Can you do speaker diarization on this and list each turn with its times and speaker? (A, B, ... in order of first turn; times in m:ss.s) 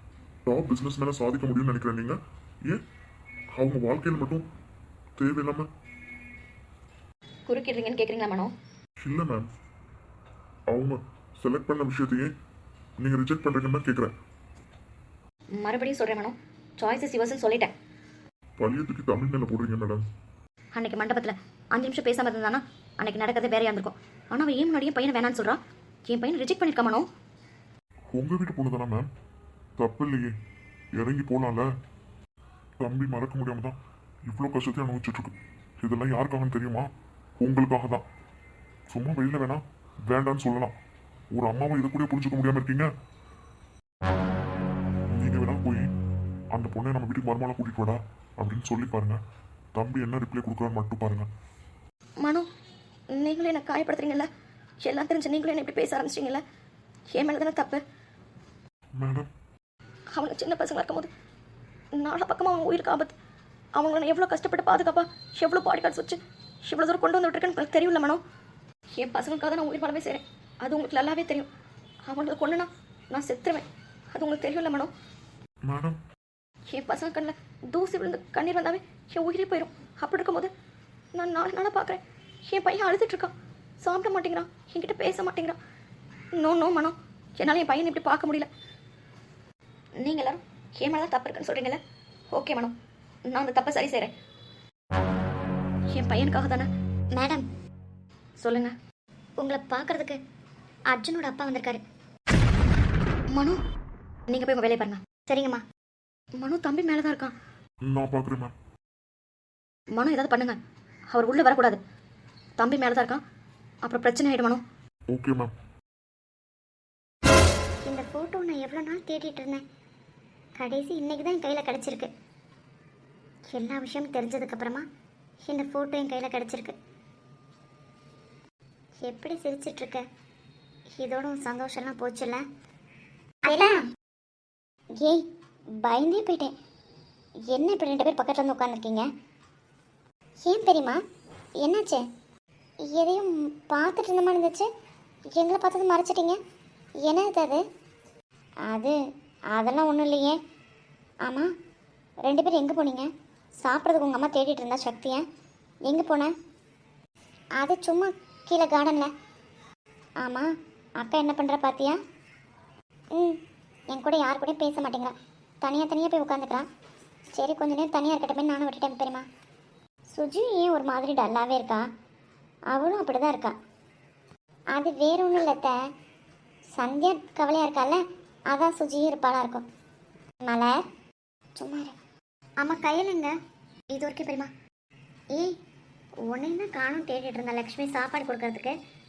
0:00.5-0:02.8 A
0:03.5-0:04.5 A
0:05.2-0:05.7 A
0:07.5-0:08.5 B
0:09.0-0:09.5 A
0:10.7-0:12.3 A
0:13.0-0:14.1 A
0:15.6-0:17.7 B
0:18.6-0:20.1 A
0:20.8-0:27.1 B
0:28.1-0:29.1 A
0:29.8-0:30.3 A
0:31.0-0:31.7 A
0:32.8-0:38.0 A
0:38.9-0:40.7 A
0:41.3-0:42.9 A
0:45.1-0:45.9 A
0:46.5-0:49.2 A
0:49.8-0:51.3 A
0:52.2-0:52.5 B
0:53.1-0:54.3 B
0:54.8-0:56.4 B
0:57.1-0:57.8 B
0:59.0-0:59.3 A
1:00.1-1:01.1 B
1:02.0-1:03.1 B
1:03.8-1:08.2 B
1:09.0-1:11.5 B
1:12.1-1:14.9 B
1:15.7-1:16.0 A
1:16.7-1:20.5 B
1:21.2-1:25.6 B
1:26.4-1:28.5 B
1:30.0-1:31.8 B
1:32.3-1:32.8 B
1:33.3-1:34.1 B
1:35.9-1:36.7 B
1:37.1-1:37.5 C
1:38.4-1:38.8 B
1:39.4-1:40.2 C
1:40.9-1:41.8 C
1:43.3-1:43.6 B
1:44.3-1:45.0 B
1:45.3-1:45.6 C
1:46.4-1:47.3 B
1:47.9-1:48.5 A
1:50.0-1:50.6 B
1:51.1-1:51.8 B
1:52.6-1:53.2 B
1:53.8-1:54.6 B
1:55.1-1:55.5 A
1:57.9-1:59.6 C
2:00.6-2:02.1 C
2:03.5-2:04.8 C
2:05.4-2:06.8 C
2:09.0-2:10.0 C
2:11.0-2:12.4 C
2:13.5-2:13.8 C
2:15.0-2:15.2 C
2:15.8-2:16.6 C
2:17.5-2:19.1 C
2:20.4-2:21.0 C
2:21.6-2:22.0 C
2:22.9-2:24.7 C
2:25.4-2:26.4 C
2:27.0-2:27.6 C
2:28.7-2:29.0 C
2:29.5-2:30.4 C
2:31.2-2:31.5 C
2:32.3-2:33.1 C
2:33.6-2:35.2 C
2:35.9-2:36.3 C
2:37.6-2:39.1 C
2:40.2-2:40.5 C
2:41.0-2:42.0 C
2:43.2-2:46.7 C
2:47.4-2:49.3 C
2:50.1-2:51.9 C
2:52.7-2:53.6 C
2:54.7-2:55.8 C
2:56.8-2:58.0 C
2:58.5-2:59.7 C
3:00.4-3:00.8 C
3:01.6-3:02.0 C
3:02.6-3:03.3 C
3:03.9-3:04.5 C
3:06.3-3:08.7 C